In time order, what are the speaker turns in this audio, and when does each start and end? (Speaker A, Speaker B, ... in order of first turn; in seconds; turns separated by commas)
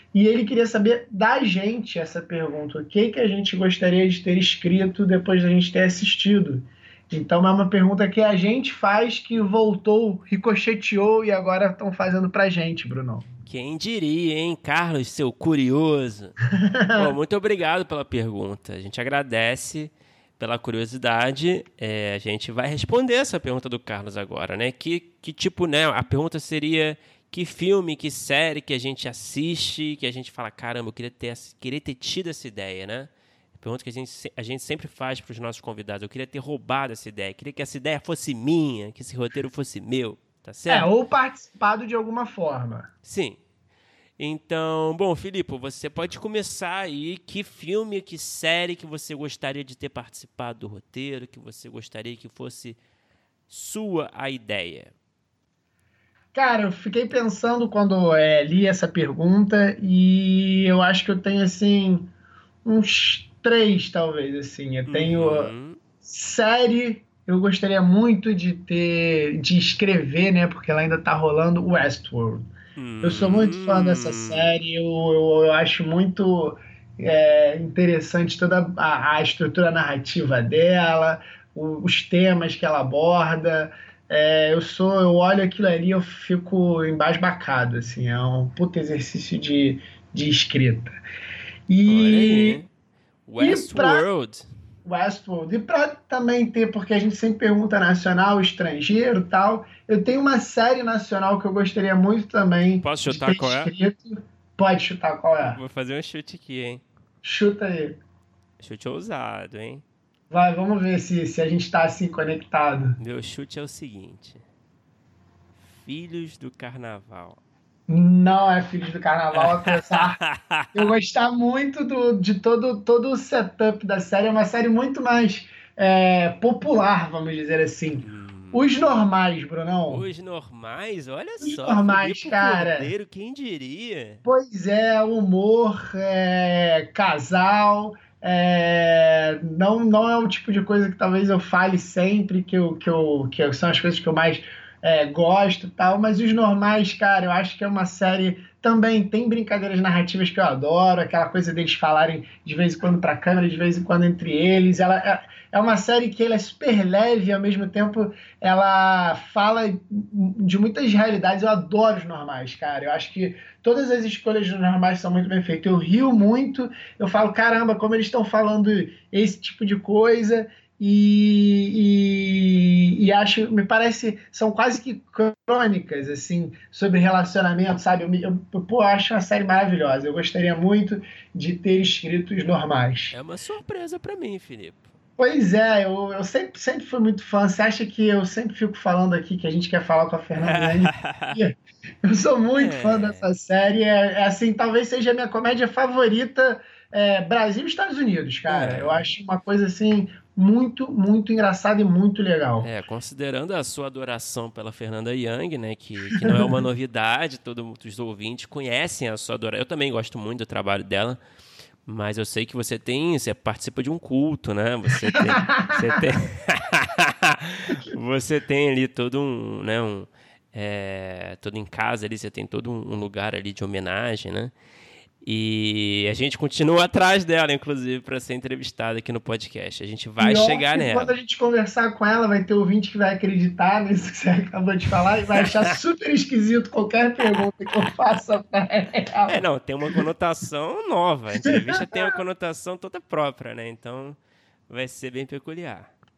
Speaker A: 0.1-13.3, Speaker B: 13.4-16.4, Speaker A: 16.6-17.1, Speaker B: 16.9-40.9, Speaker A: 40.7-42.9, Speaker B: 43.0-43.4, Speaker B: 44.2-52.8, Speaker B: 53.5-54.9, Speaker A: 56.3-62.1, Speaker A: 62.6-65.5, Speaker B: 64.9-65.8, Speaker A: 66.0-72.5, Speaker B: 72.8-74.5, Speaker A: 73.0-90.9, Speaker A: 91.7-92.6, Speaker B: 91.8-92.7, Speaker B: 93.3-94.5, Speaker A: 93.4-94.1, Speaker A: 94.8-105.6, Speaker B: 102.8-103.7, Speaker B: 105.4-106.8, Speaker A: 107.2-108.0, Speaker B: 108.6-109.8, Speaker A: 110.3-113.0, Speaker B: 113.0-114.4, Speaker B: 115.6-117.4, Speaker A: 117.9-120.2, Speaker B: 119.3-120.9, Speaker A: 120.7-130.1, Speaker B: 128.0-128.7, Speaker B: 129.9-134.2, Speaker A: 131.4-132.9, Speaker A: 134.2-183.1, Speaker B: 183.1-184.9, Speaker A: 185.2-202.7, Speaker B: 190.4-191.4, Speaker B: 192.5-193.3, Speaker B: 198.5-199.1, Speaker B: 202.6-211.2, Speaker A: 206.2-206.5, Speaker B: 211.8-224.6, Speaker A: 215.1-216.0, Speaker B: 225.2-231.1, Speaker A: 230.2-239.4, Speaker B: 235.4-235.7, Speaker B: 239.3-244.2, Speaker A: 241.4-242.2, Speaker B: 244.7-245.9